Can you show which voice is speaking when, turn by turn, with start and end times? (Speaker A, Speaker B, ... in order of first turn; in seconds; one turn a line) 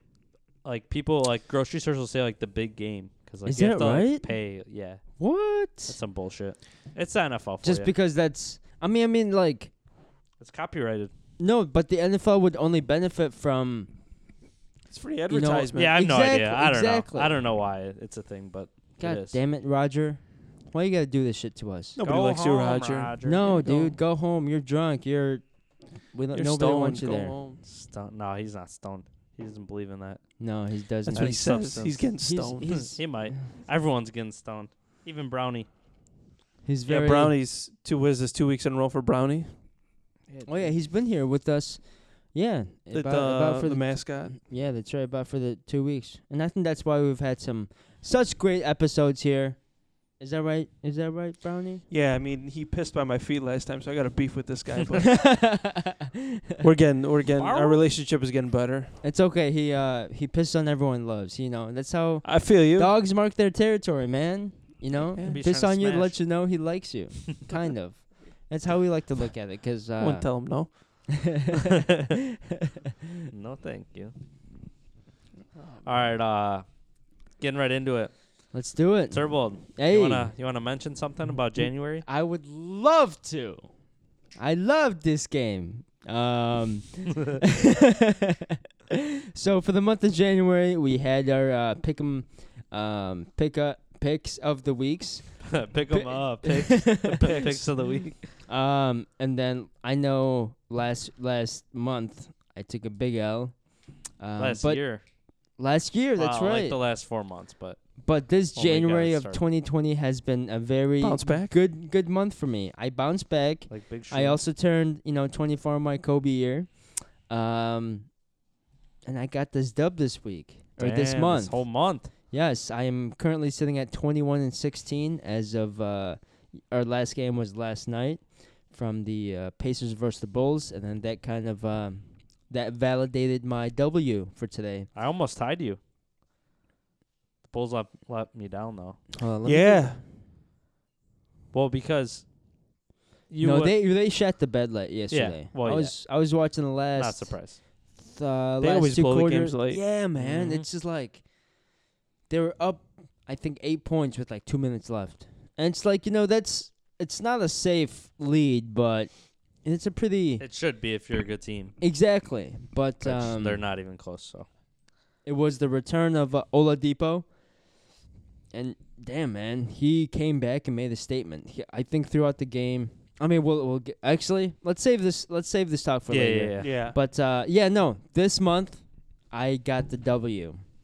Speaker A: 0.6-5.2
Speaker B: 3.5-4.6
Speaker B: 5.2-6.0
Speaker A: 5.8-7.9
Speaker B: 7.6-9.7
Speaker A: 10.4-11.1
Speaker B: 11.4-13.9
Speaker C: 14.9-16.0
Speaker B: 15.3-17.4
Speaker A: 15.7-19.4
Speaker B: 19.0-22.0
Speaker C: 21.9-24.0
Speaker A: 22.0-23.6
Speaker B: 23.2-27.4
Speaker C: 26.3-27.6
Speaker A: 27.6-30.2
Speaker B: 30.4-33.4
Speaker C: 31.1-32.9
Speaker A: 31.1-35.7
Speaker B: 36.6-37.4
Speaker C: 36.9-39.6
Speaker C: 40.3-40.6
Speaker B: 40.4-51.8
Speaker C: 42.9-44.4
Speaker C: 51.9-55.5
Speaker B: 55.1-56.2
Speaker C: 56.6-58.9
Speaker A: 57.4-57.9
Speaker B: 59.0-71.4
Speaker C: 62.2-62.9
Speaker A: 65.2-66.2
Speaker C: 70.0-71.2
Speaker A: 73.3-74.1
Speaker C: 75.5-76.1
Speaker A: 75.8-76.7
Speaker A: 77.4-78.1
Speaker B: 78.5-80.3
Speaker A: 79.1-82.0
Speaker B: 82.0-83.8
Speaker B: 84.3-88.2
Speaker B: 89.3-97.3
Speaker A: 95.4-98.3
Speaker C: 97.2-98.1
Speaker B: 98.4-106.8
Speaker A: 104.4-105.0
Speaker A: 106.2-107.8
Speaker B: 108.0-118.2
Speaker A: 108.5-109.4
Speaker C: 111.0-111.5
Speaker A: 113.7-114.4
Speaker B: 119.0-134.9
Speaker A: 120.8-122.1
Speaker A: 134.9-135.8
Speaker A: 137.5-139.1
Speaker B: 139.2-140.0
Speaker C: 139.4-140.0
Speaker A: 141.5-142.3
Speaker A: 143.3-143.8
Speaker B: 143.4-151.3
Speaker A: 145.1-146.0
Speaker A: 147.0-147.6
Speaker C: 148.6-149.8
Speaker A: 150.2-150.7
Speaker B: 152.3-160.4
Speaker A: 160.4-161.8
Speaker B: 161.8-163.6
Speaker A: 163.0-164.5
Speaker B: 165.2-167.3
Speaker B: 168.5-180.7
Speaker A: 176.1-176.8
Speaker C: 176.6-176.9